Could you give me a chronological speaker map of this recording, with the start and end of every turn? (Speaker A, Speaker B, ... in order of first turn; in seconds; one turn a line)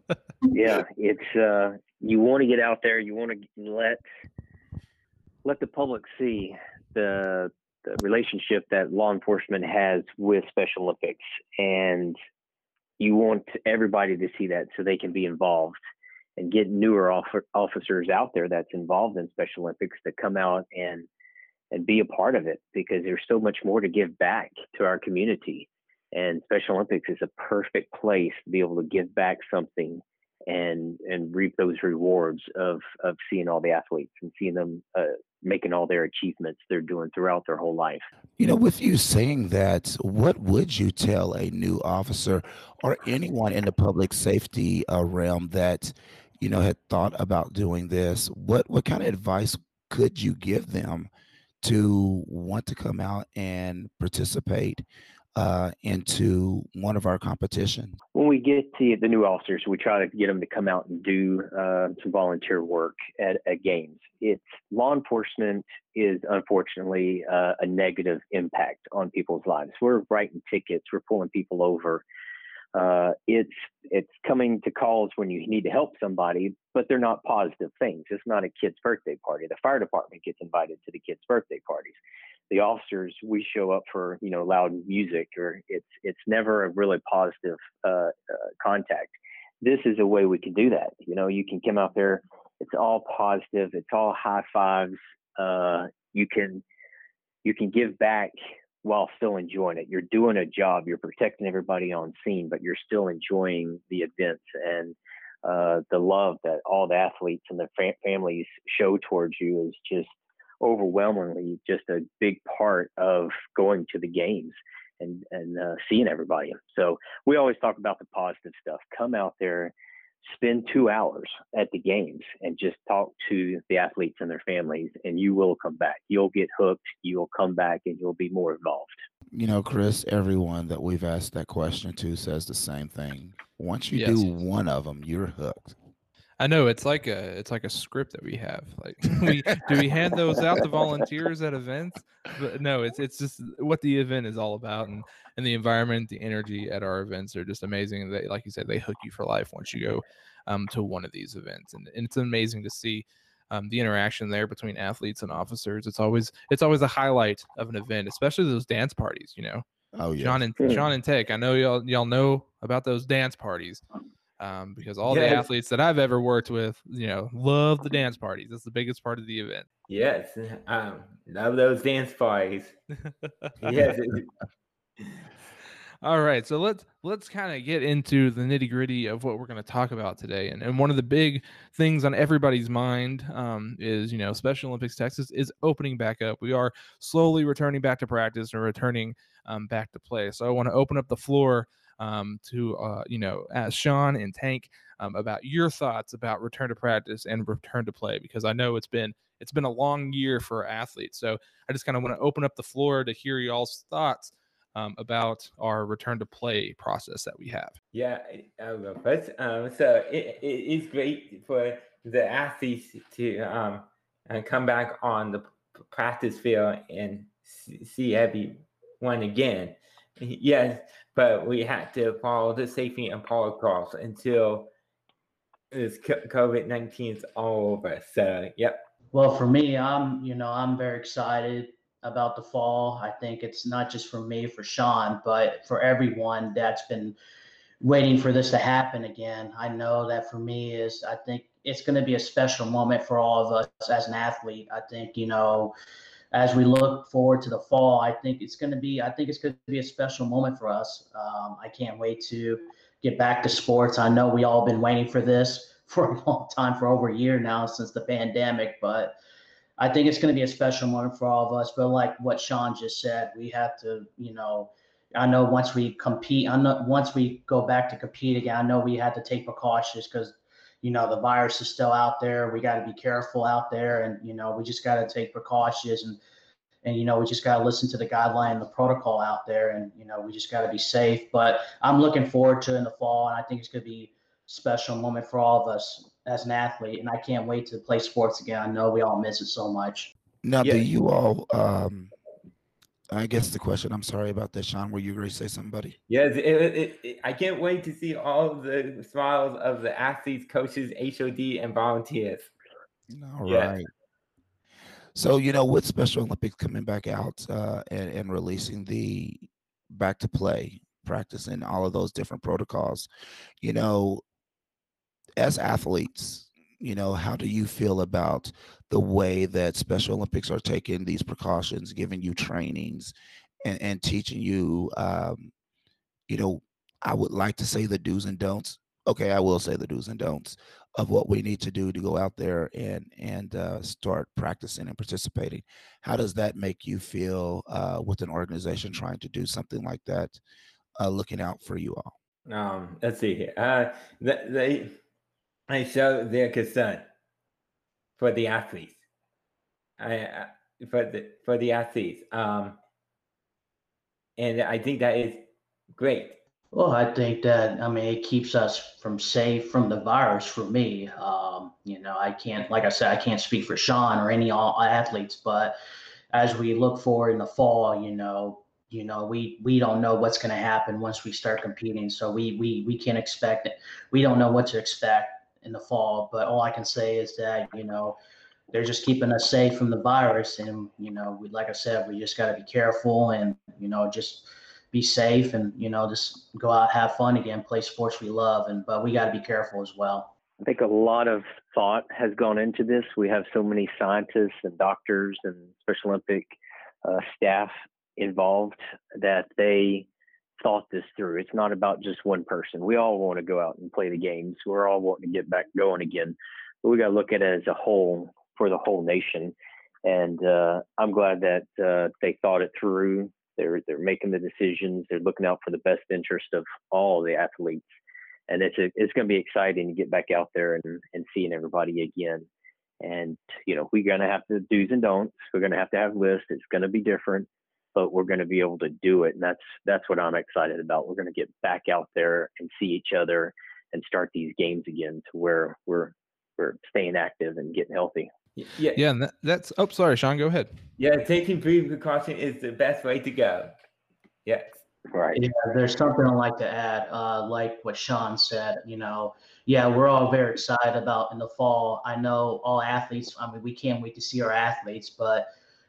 Speaker A: 0.5-4.0
Speaker A: 5.5-12.2
Speaker A: 13.0-15.8
Speaker A: 16.4-21.1
Speaker A: 21.7-38.0
Speaker B: 38.4-51.1
Speaker B: 51.6-54.8
Speaker B: 55.4-58.0
Speaker A: 58.1-72.0
Speaker A: 72.8-82.0
Speaker A: 82.5-96.6
Speaker A: 97.4-119.7
Speaker A: 120.2-129.0
Speaker B: 129.3-135.8
Speaker C: 133.9-134.3
Speaker C: 136.4-159.6
Speaker B: 160.0-160.4
Speaker C: 160.2-163.8
Speaker C: 164.4-169.7
Speaker D: 165.1-165.5
Speaker D: 169.9-172.8
Speaker D: 173.6-174.3
Speaker C: 176.0-207.8
Speaker D: 207.9-224.7
Speaker D: 225.7-228.9
Speaker E: 229.1-237.2
Speaker E: 237.8-245.7
Speaker E: 246.3-259.2
Speaker E: 259.8-276.2
Speaker E: 276.8-290.1
Speaker B: 290.4-292.1
Speaker D: 290.6-290.9
Speaker B: 293.1-295.9
Speaker D: 296.1-302.5
Speaker B: 303.1-303.9
Speaker D: 303.5-303.8
Speaker B: 305.1-313.1
Speaker B: 313.6-314.2
Speaker B: 315.4-325.5
Speaker B: 326.3-340.4
Speaker B: 341.0-342.1
Speaker D: 342.5-345.0
Speaker D: 345.7-347.1
Speaker D: 348.2-349.0
Speaker D: 350.0-352.8
Speaker D: 354.4-356.4
Speaker E: 356.7-365.8
Speaker E: 366.3-378.2
Speaker E: 378.7-390.3
Speaker A: 390.6-396.5
Speaker A: 397.1-400.1
Speaker A: 400.6-409.5
Speaker A: 410.1-417.9
Speaker A: 418.5-422.5
Speaker A: 423.0-438.3
Speaker D: 438.6-439.0
Speaker C: 438.9-440.7
Speaker D: 441.0-443.7
Speaker D: 444.4-444.8
Speaker A: 445.1-445.4
Speaker E: 445.4-455.5